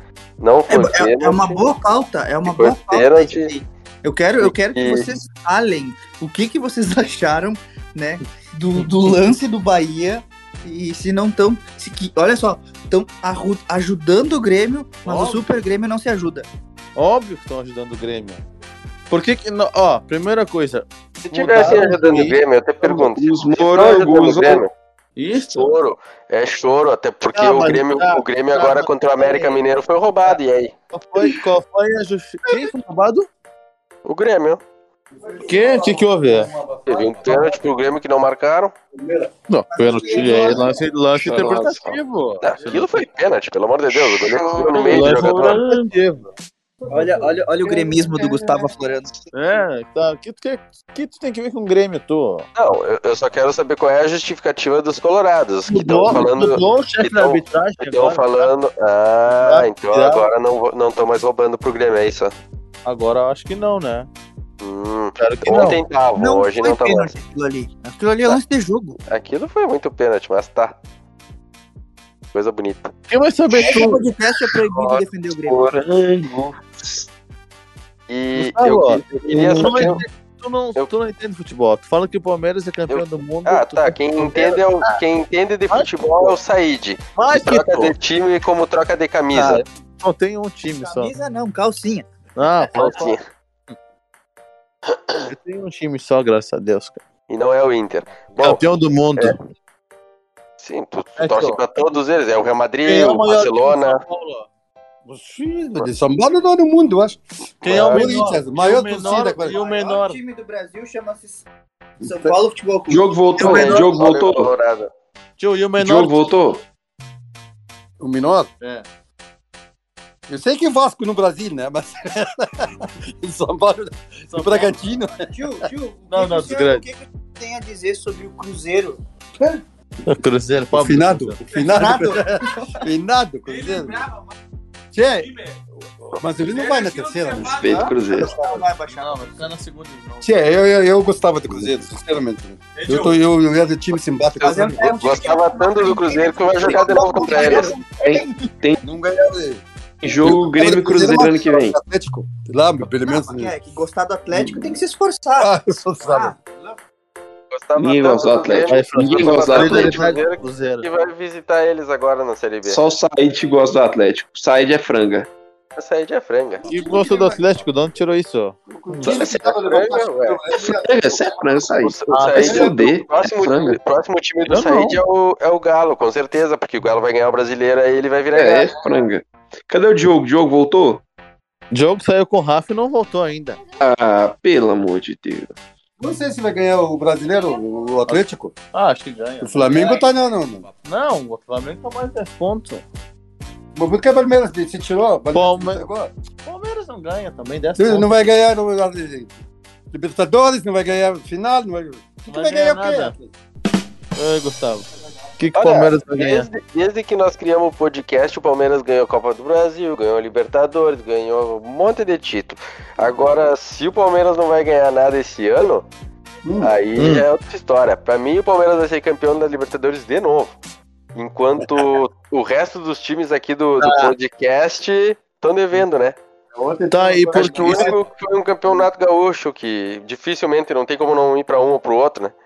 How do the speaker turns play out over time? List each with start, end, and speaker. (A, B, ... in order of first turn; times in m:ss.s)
0:00.4-0:01.7 A
0:00.7-0:16.5 B
0:02.4-0:03.5 A
0:04.4-0:05.1 A
0:15.1-0:15.4 C
0:17.0-0:18.4 C
0:19.1-0:22.4 C
0:21.3-0:24.7 A
0:22.8-0:24.6 D
0:25.2-0:25.7 C
0:25.5-0:30.7 A
0:27.3-0:29.6 C
0:30.9-0:33.3 C
0:34.1-0:34.6 A
0:35.2-0:37.5 E
0:35.4-0:36.5 C
0:36.9-0:38.7 A
0:39.0-0:39.3 E
0:39.5-0:43.0 C
0:39.7-0:40.8 B
0:39.9-0:40.6 E
0:41.2-0:41.9 D
0:42.4-0:45.6 A
0:43.9-0:45.6 D
0:44.8-0:46.3 C
0:46.8-0:48.7 E
0:46.9-0:49.1 B
0:49.3-0:52.5 C
0:52.6-1:02.3 A
0:55.7-0:58.5 C
0:59.3-1:00.3 C
1:02.8-1:04.1 C
1:04.6-1:07.1 A
1:05.2-1:05.8 C
1:06.2-1:09.0 B
1:09.1-1:10.8 A
1:12.3-1:12.9 A
1:13.1-1:14.0 C
1:13.5-1:15.7 B
1:13.5-1:17.1 D
1:18.1-1:20.0 A
1:18.4-1:25.0 C
1:19.3-1:20.0 D
1:22.9-1:29.6 A
1:25.7-1:26.4 C
1:27.2-1:28.0 C
1:29.3-1:29.6 B
1:30.0-1:31.1 C
1:30.8-1:32.1 B
1:32.4-1:33.2 C
1:32.7-1:33.2 A
1:35.2-1:37.0 C
1:37.3-1:38.6 A
1:38.4-1:39.4 C
1:40.6-1:44.0 A
1:41.2-1:41.6 C
1:42.8-1:44.5 C
1:45.1-1:45.9 C
1:45.7-1:49.6 E
1:47.6-1:50.2 C
1:49.1-1:51.4 B
1:52.0-1:54.0 B
1:52.0-1:52.3 E
1:52.9-1:54.5 D
1:53.4-1:54.9 A
1:55.4-1:56.4 C
1:55.8-1:56.6 D
1:58.0-1:58.5 E
2:00.3-2:05.7 E
2:04.3-2:04.7 C
2:05.3-2:09.0 B
2:06.1-2:06.8 C
2:10.1-2:11.4 C
2:10.7-2:14.0 E
2:11.7-2:12.8 B
2:13.5-2:14.2 F
2:14.9-2:15.3 E
2:15.2-2:15.5 F
2:16.2-2:17.7 E
2:16.4-2:17.9 F
2:17.4-2:18.3 D
2:17.7-2:19.5 B
2:18.9-2:20.3 C
2:20.2-2:25.0 E
2:22.8-2:23.1 F
2:24.4-2:28.5 B
2:24.4-2:27.7 A
2:26.7-2:27.8 E
2:28.0-2:28.8 D
2:28.8-2:29.6 E
2:30.0-2:31.8 D
2:30.2-2:33.5 E
2:33.0-2:35.5 B
2:35.4-2:36.4 E
2:36.0-2:36.4 B
2:37.5-2:42.8 A
2:37.8-2:40.1 D
2:38.7-2:40.9 C
2:42.6-2:45.3 D
2:45.8-2:46.7 A
2:46.6-2:47.5 E
2:46.7-2:49.2 C
2:48.7-2:51.1 E
2:49.0-2:49.5 D
2:49.6-2:50.4 A
2:50.5-2:53.8 D
2:51.8-2:58.7 A
2:52.1-2:52.6 C
2:52.4-2:52.8 E
2:54.5-2:55.0 C
2:58.3-3:01.0 D
3:01.7-3:03.6 C
3:03.8-3:05.5 D
3:06.0-3:08.5 E
3:08.7-3:10.0 C
3:09.4-3:10.7 E
3:10.8-3:12.8 C
3:13.8-3:16.1 E
3:15.3-3:15.9 C
3:16.4-3:18.3 C
3:17.8-3:19.4 E
3:19.9-3:23.3 E
3:22.3-3:23.2 C
3:24.2-3:24.9 C
3:25.4-3:26.5 C
3:25.6-3:35.9 A
3:36.4-3:36.7 E
3:36.6-3:40.6 A
3:37.0-3:37.2 C
3:41.2-3:46.2 A
3:43.8-3:44.1 C
3:46.5-3:48.0 E
3:46.9-3:48.0 C
3:47.3-3:52.3 A